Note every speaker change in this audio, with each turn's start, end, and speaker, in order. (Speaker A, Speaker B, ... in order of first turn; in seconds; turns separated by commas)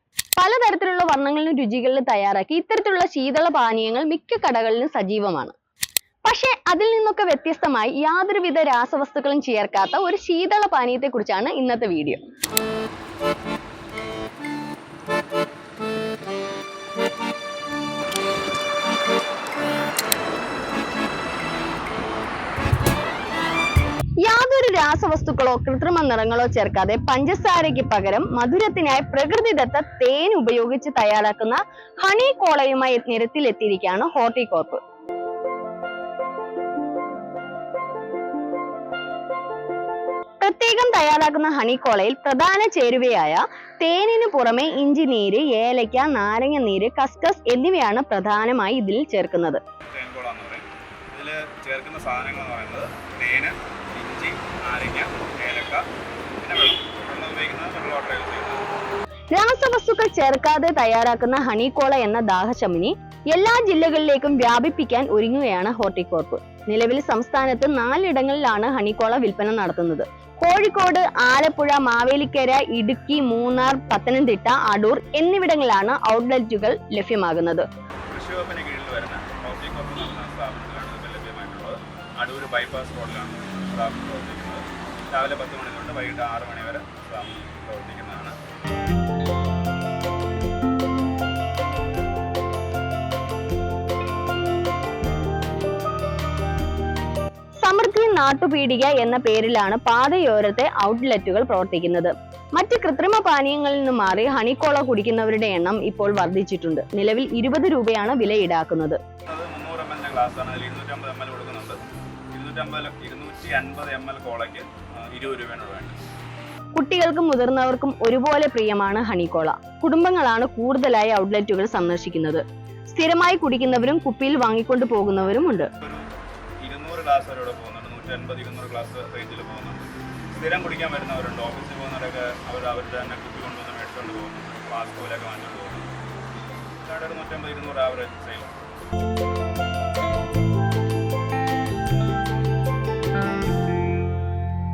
Speaker A: 0.4-5.5, Speaker A: 6.2-12.2, Speaker A: 24.2-34.8, Speaker A: 40.4-49.6, Speaker B: 49.9-55.9, Speaker B: 56.4-58.6, Speaker A: 59.3-77.7, Speaker B: 78.1-88.4, Speaker A: 97.6-109.0, Speaker B: 109.3-111.8, Speaker B: 112.3-116.0, Speaker A: 116.8-125.7, Speaker B: 126.6-135.9, Speaker B: 136.8-138.5